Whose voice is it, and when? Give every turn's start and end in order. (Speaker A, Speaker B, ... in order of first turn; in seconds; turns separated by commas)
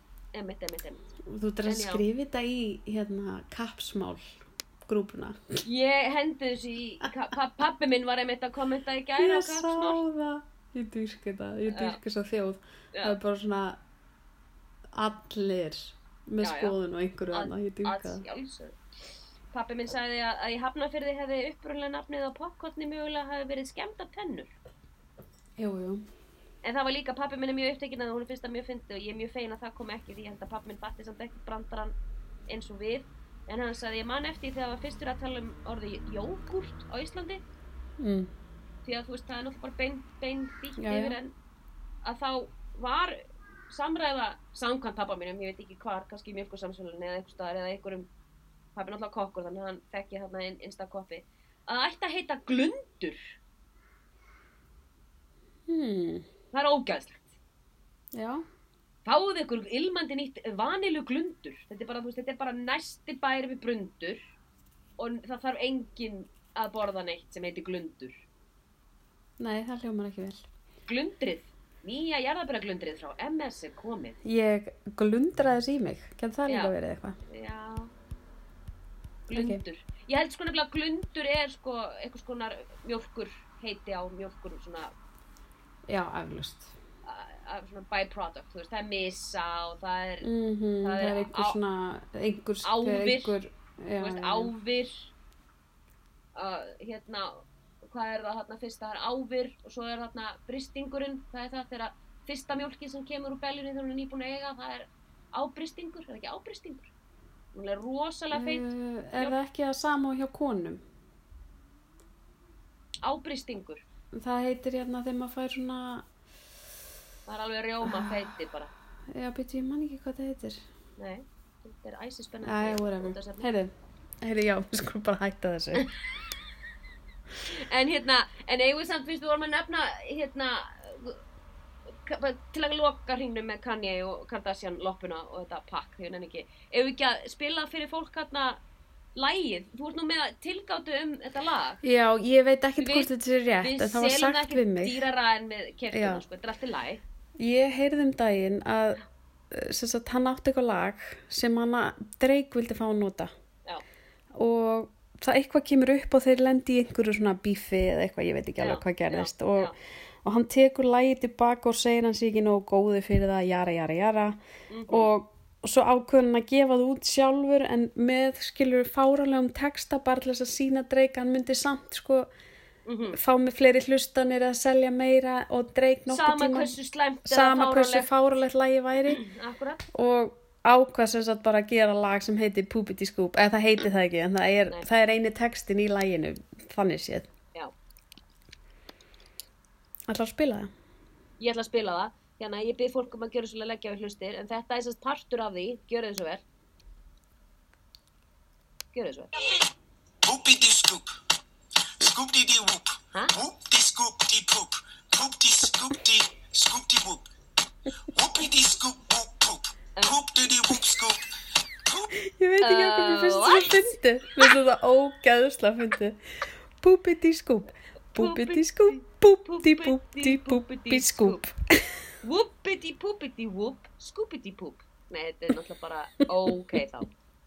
Speaker A: 0.3-1.1, Speaker B: 1.2-5.6, Speaker A: 1.7-2.0, Speaker A: 5.7-10.0, Speaker B: 9.2-13.8, Speaker A: 11.7-12.0, Speaker B: 14.9-18.2, Speaker A: 16.4-16.8, Speaker A: 17.3-18.8, Speaker A: 19.5-24.5, Speaker B: 25.6-26.1, Speaker A: 26.6-31.9, Speaker A: 32.5-37.4, Speaker B: 38.0-38.3, Speaker A: 38.9-41.3, Speaker B: 40.8-41.2, Speaker A: 42.0-48.1, Speaker A: 48.8-53.4, Speaker B: 55.7-56.3, Speaker A: 56.5-57.3, Speaker B: 58.1-58.4, Speaker A: 59.1-64.3, Speaker A: 65.0-68.2, Speaker B: 69.4-70.5, Speaker A: 70.9-74.2, Speaker B: 74.2-77.2, Speaker A: 76.5-76.7, Speaker A: 77.3-77.9, Speaker A: 79.3-84.9, Speaker B: 79.3-79.6, Speaker B: 85.9-86.7, Speaker A: 87.0-90.3, Speaker B: 90.2-94.5, Speaker A: 90.8-91.6, Speaker A: 92.6-93.4, Speaker A: 94.0-95.1, Speaker A: 96.3-106.9, Speaker A: 107.5-109.4, Speaker B: 108.3-110.8, Speaker A: 113.0-113.8, Speaker B: 114.1-116.1, Speaker A: 117.3-118.7, Speaker B: 117.8-118.3, Speaker B: 119.1-120.6, Speaker A: 121.0-123.5, Speaker B: 122.4-125.9, Speaker A: 127.5-131.2, Speaker A: 132.0-138.6, Speaker A: 139.2-141.8, Speaker B: 141.8-145.1, Speaker A: 142.8-143.1, Speaker A: 143.6-147.0, Speaker B: 145.9-146.2, Speaker B: 147.4-153.3, Speaker B: 154.3-159.7, Speaker A: 158.6-159.8, Speaker B: 160.2-164.4, Speaker A: 164.7-165.1, Speaker B: 164.9-172.3, Speaker A: 172.9-173.2, Speaker B: 173.1-176.7, Speaker A: 176.1-178.1, Speaker B: 177.3-179.2, Speaker A: 179.1-179.9, Speaker B: 179.9-187.3, Speaker B: 190.1-190.7, Speaker A: 191.4-196.4, Speaker A: 198.9-199.3, Speaker C: 200.2-201.1, Speaker C: 202.0-207.3, Speaker C: 208.1-211.2, Speaker C: 211.8-212.2, Speaker B: 212.2-216.2, Speaker A: 212.6-214.0, Speaker B: 216.8-222.1, Speaker A: 218.2-221.4, Speaker A: 222.2-227.1